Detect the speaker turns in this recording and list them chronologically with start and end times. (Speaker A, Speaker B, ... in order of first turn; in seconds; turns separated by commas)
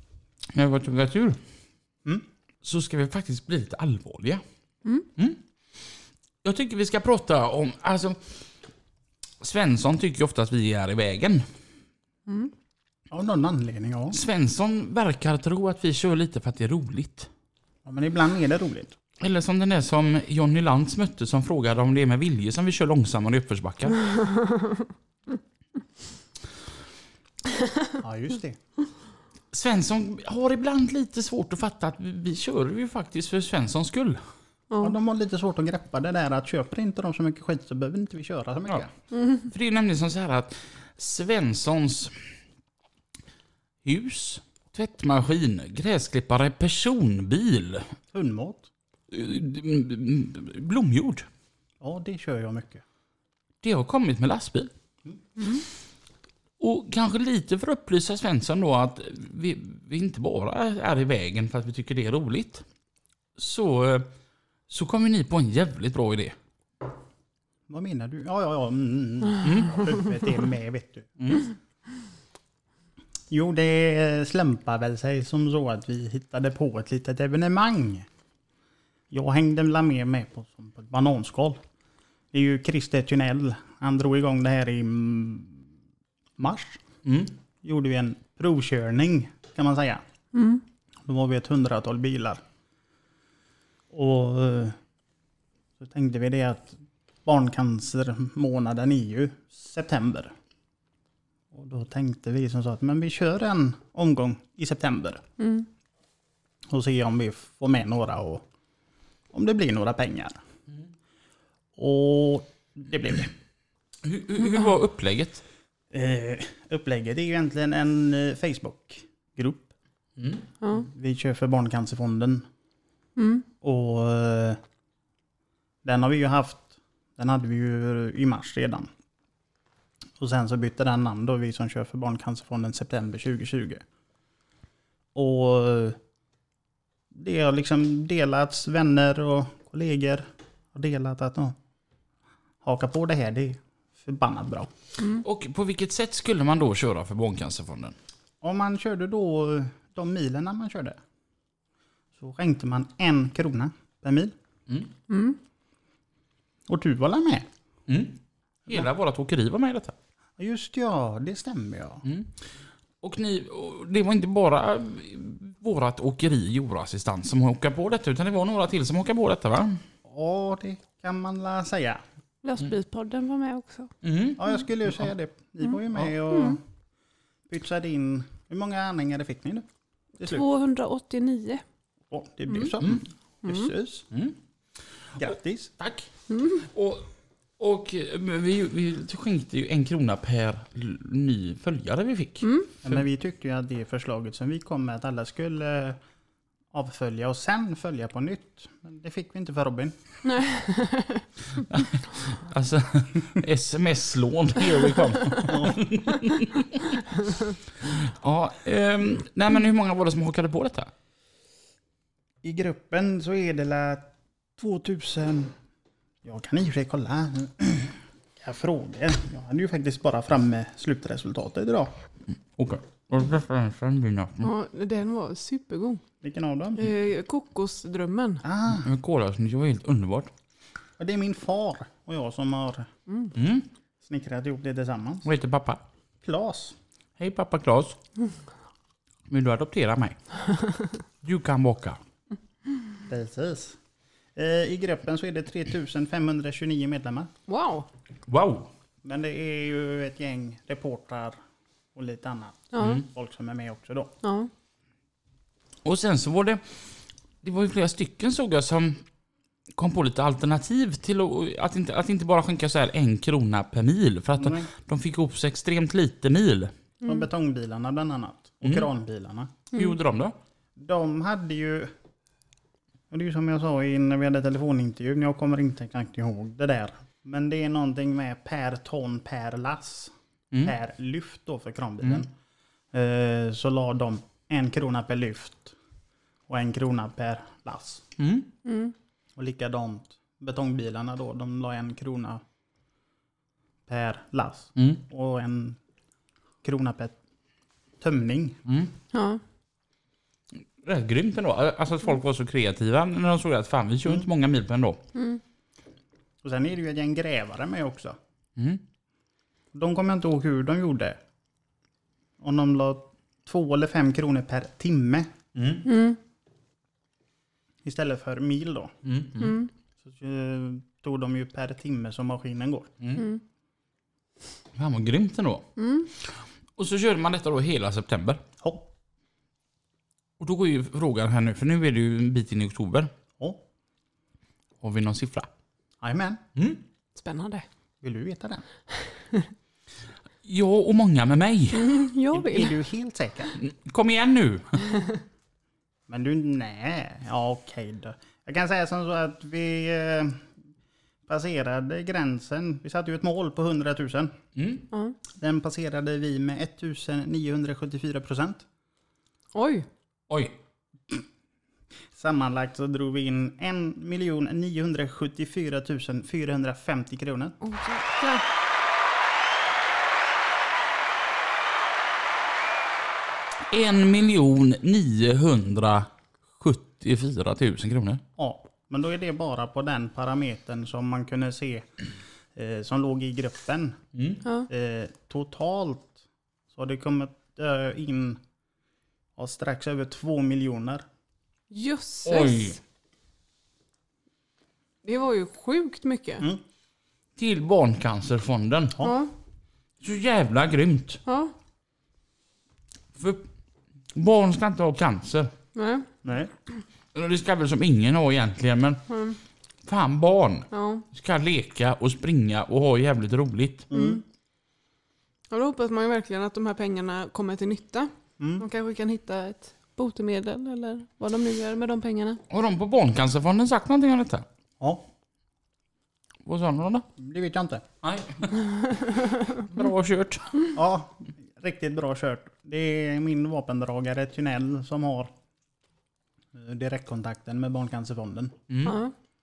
Speaker A: 0.5-1.4, Speaker A: 2.6-4.4, Speaker A: 5.2-5.4, Speaker A: 6.4-8.3, Speaker A: 9.4-11.5, Speaker B: 12.3-12.5, Speaker C: 13.1-14.2, Speaker A: 14.1-17.3, Speaker C: 17.8-18.9, Speaker A: 19.2-24.0, Speaker C: 28.0-28.6, Speaker A: 29.5-34.2, Speaker C: 34.8-38.9, Speaker B: 39.1-39.4, Speaker A: 39.5-42.2, Speaker A: 43.8-47.9, Speaker C: 48.1-48.7, Speaker A: 49.1-51.3, Speaker C: 51.8-52.8, Speaker A: 53.6-54.7, Speaker B: 55.4-55.6, Speaker A: 56.6-62.6, Speaker A: 63.4-64.1, Speaker A: 64.7-66.4, Speaker C: 67.7-71.1, Speaker A: 69.4-69.8, Speaker A: 71.2-71.5, Speaker C: 73.3-78.0, Speaker C: 79.1-81.6, Speaker C: 82.3-85.6, Speaker C: 86.4-86.8, Speaker A: 87.0-87.3, Speaker C: 87.6-90.0, Speaker B: 90.3-90.6, Speaker C: 91.0-92.4, Speaker C: 93.9-94.8, Speaker C: 95.8-100.3, Speaker C: 101.5-105.2, Speaker B: 105.4-105.7, Speaker C: 106.7-108.4, Speaker C: 109.3-110.4, Speaker C: 111.8-113.3, Speaker A: 114.0-115.4, Speaker C: 115.9-119.7, Speaker A: 120.2-120.5, Speaker B: 120.6-120.9, Speaker C: 120.7-122.5, Speaker B: 123.2-123.5, Speaker C: 123.6-124.6, Speaker C: 125.8-128.9, Speaker C: 130.2-133.8, Speaker C: 135.1-136.0, Speaker C: 137.1-141.5, Speaker C: 142.6-144.7, Speaker A: 145.2-147.9, Speaker C: 148.4-151.0, Speaker C: 152.2-154.3, Speaker A: 154.7-154.9, Speaker B: 155.1-155.4, Speaker C: 156.7-157.5, Speaker A: 157.9-159.9, Speaker C: 160.4-162.0, Speaker A: 162.0-162.4, Speaker A: 163.0-169.8, Speaker C: 170.0-172.0, Speaker B: 172.4-173.9, Speaker A: 174.0-174.4, Speaker C: 174.4-176.6, Speaker B: 176.3-176.6, Speaker C: 177.5-179.7, Speaker B: 180.2-181.6, Speaker C: 182.1-184.1, Speaker B: 183.4-183.7, Speaker A: 184.1-184.4, Speaker A: 185.2-186.1, Speaker C: 185.2-185.7, Speaker B: 186.3-186.6, Speaker A: 186.6-193.0, Speaker B: 192.4-192.7, Speaker C: 192.8-196.0, Speaker C: 196.7-199.9, Speaker B: 200.2-201.2, Speaker A: 201.7-207.0, Speaker C: 205.5-205.8, Speaker A: 207.8-210.9, Speaker C: 212.4-215.6, Speaker C: 216.2-221.9, Speaker A: 222.6-224.5, Speaker B: 224.4-226.0, Speaker C: 226.2-226.9, Speaker B: 226.8-228.4, Speaker C: 228.4-228.9, Speaker A: 228.7-230.3, Speaker C: 231.0-232.9, Speaker A: 233.3-233.7, Speaker C: 234.0-235.3, Speaker A: 235.2-235.8, Speaker C: 236.2-236.8, Speaker A: 237.2-238.0, Speaker A: 239.3-240.2, Speaker A: 241.2-242.0, Speaker C: 243.1-243.8, Speaker C: 244.3-247.3, Speaker B: 247.5-247.9, Speaker A: 248.2-248.7, Speaker C: 249.0-251.4, Speaker C: 251.9-254.1, Speaker B: 252.7-253.0, Speaker A: 252.8-253.0, Speaker B: 254.2-254.5, Speaker A: 255.8-256.6, Speaker A: 257.4-259.0, Speaker A: 259.7-266.7, Speaker C: 264.4-264.7, Speaker C: 267.0-269.5, Speaker A: 268.6-268.9, Speaker A: 269.7-270.4, Speaker C: 270.8-271.9, Speaker C: 273.1-282.3, Speaker C: 282.9-285.7, Speaker C: 286.5-288.0, Speaker A: 288.2-288.5, Speaker B: 288.6-288.9, Speaker C: 289.4-292.4, Speaker C: 293.9-295.8, Speaker A: 294.8-295.0, Speaker C: 296.6-297.1, Speaker C: 298.0-298.6, Speaker A: 298.6-298.9, Speaker B: 299.1-299.4, Speaker A: 300.8-305.0, Speaker B: 305.1-305.4, Speaker C: 306.4-308.2, Speaker A: 308.6-308.8, Speaker C: 309.7-311.2, Speaker C: 312.4-315.3, Speaker A: 315.5-315.9, Speaker B: 315.9-316.2, Speaker C: 317.8-318.9, Speaker A: 319.0-319.6, Speaker B: 319.4-319.7, Speaker C: 320.0-322.9, Speaker A: 323.0-323.2, Speaker A: 324.7-325.7, Speaker B: 325.8-326.1, Speaker A: 326.2-328.4, Speaker C: 328.6-328.9, Speaker A: 330.4-333.1, Speaker A: 334.8-335.5, Speaker C: 336.0-336.4, Speaker A: 336.6-336.8, Speaker B: 337.1-337.6, Speaker C: 338.0-338.6, Speaker A: 340.4-341.9, Speaker B: 341.7-342.8, Speaker C: 342.3-343.6, Speaker A: 343.6-345.0, Speaker C: 346.1-350.5, Speaker C: 351.3-354.3, Speaker A: 354.6-354.9, Speaker C: 355.4-358.6, Speaker B: 359.5-359.9, Speaker A: 360.3-360.6, Speaker C: 362.1-367.6, Speaker B: 367.6-368.4, Speaker A: 373.7-378.2, Speaker C: 378.4-381.9, Speaker C: 382.5-384.0, Speaker A: 384.1-384.4, Speaker C: 384.7-386.1, Speaker C: 386.7-388.4, Speaker C: 389.4-391.0, Speaker B: 391.7-392.8, Speaker A: 392.2-392.8, Speaker B: 395.0-396.4, Speaker A: 397.4-399.1, Speaker B: 399.0-399.3, Speaker A: 400.0-401.2, Speaker B: 401.2-401.5, Speaker A: 403.1-403.5, Speaker A: 404.1-405.5, Speaker B: 405.7-406.1, Speaker C: 406.2-406.5, Speaker A: 407.1-409.0, Speaker B: 409.1-409.4, Speaker A: 409.8-413.9, Speaker B: 410.7-411.1, Speaker C: 413.9-414.2, Speaker B: 413.9-414.2, Speaker B: 415.5-422.4, Speaker C: 418.4-418.6, Speaker A: 422.5-424.4, Speaker C: 424.8-425.0, Speaker A: 426.4-427.1, Speaker C: 427.2-427.8, Speaker A: 428.0-428.9, Speaker A: 429.6-430.5, Speaker C: 430.7-435.3, Speaker C: 436.5-438.5, Speaker A: 438.7-439.0, Speaker B: 438.8-439.1